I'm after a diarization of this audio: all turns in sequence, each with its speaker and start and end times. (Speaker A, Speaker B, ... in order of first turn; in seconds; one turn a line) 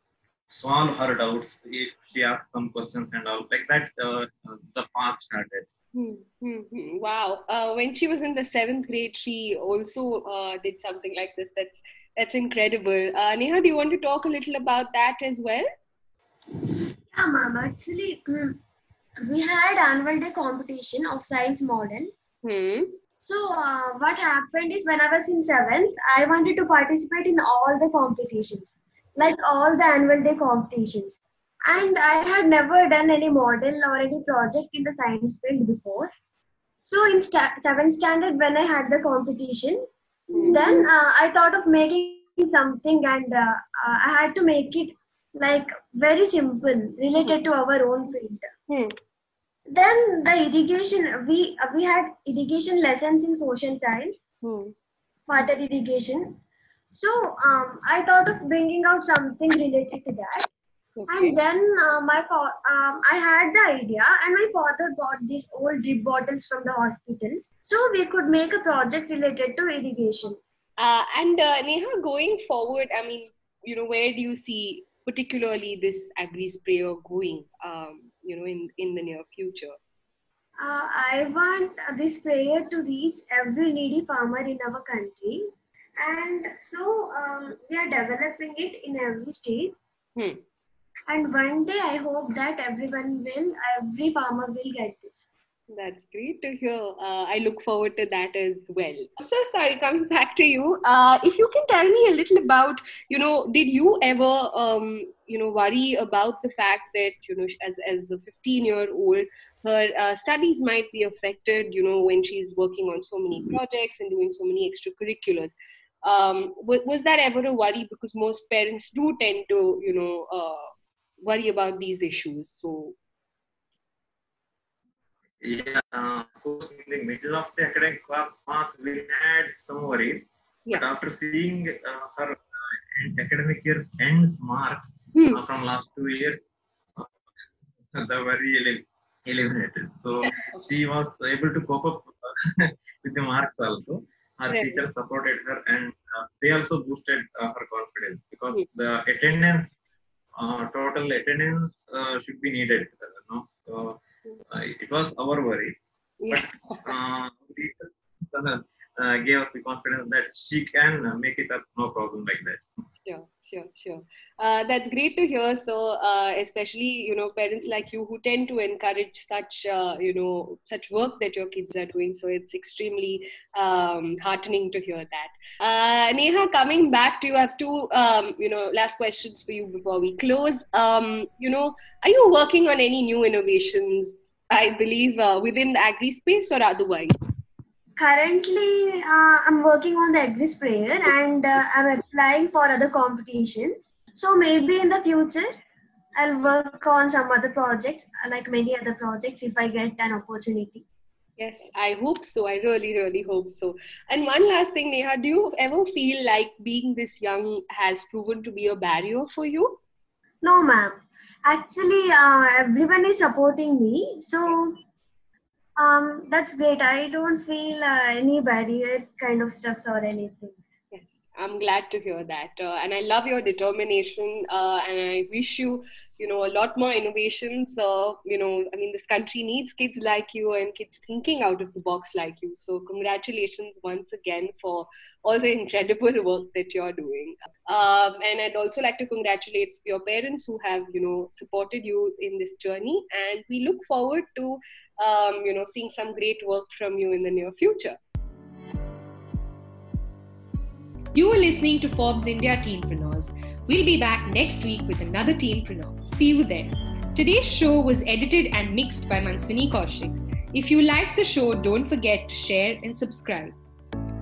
Speaker A: 0.5-5.7
Speaker B: 5.9-15.7
Speaker C: 17.1-18.6
Speaker C: 19.2-22.1
Speaker B: 22.4-22.9
Speaker C: 23.2-36.1
Speaker C: 36.8-48.5
Speaker B: 40.3-40.9
Speaker B: 48.7-48.9
Speaker C: 49.7-54.2
Speaker B: 54.4-54.7
Speaker C: 55.3-56.4
Speaker C: 56.9-60.5
Speaker B: 61.0-61.4
Speaker C: 61.1-70.4
Speaker B: 70.8-79.8
Speaker C: 80.6-85.5
Speaker C: 86.0-89.8
Speaker B: 90.2-90.4
Speaker C: 91.1-95.2
Speaker B: 95.7-120.7
Speaker B: 121.2-123.0
Speaker A: 125.4-137.1
Speaker B: 135.1-135.4
Speaker A: 137.9-149.7
Speaker B: 140.2-140.6
Speaker B: 144.5-144.8
Speaker A: 150.4-154.0
Speaker A: 154.5-155.8
Speaker B: 156.2-156.9
Speaker A: 156.3-162.6
Speaker B: 163.0-187.1
Speaker C: 188.0-195.5
Speaker C: 196.2-200.8
Speaker B: 201.4-209.8
Speaker C: 210.4-214.8
Speaker C: 215.8-220.6
Speaker B: 220.9-248.0
Speaker B: 251.1-263.5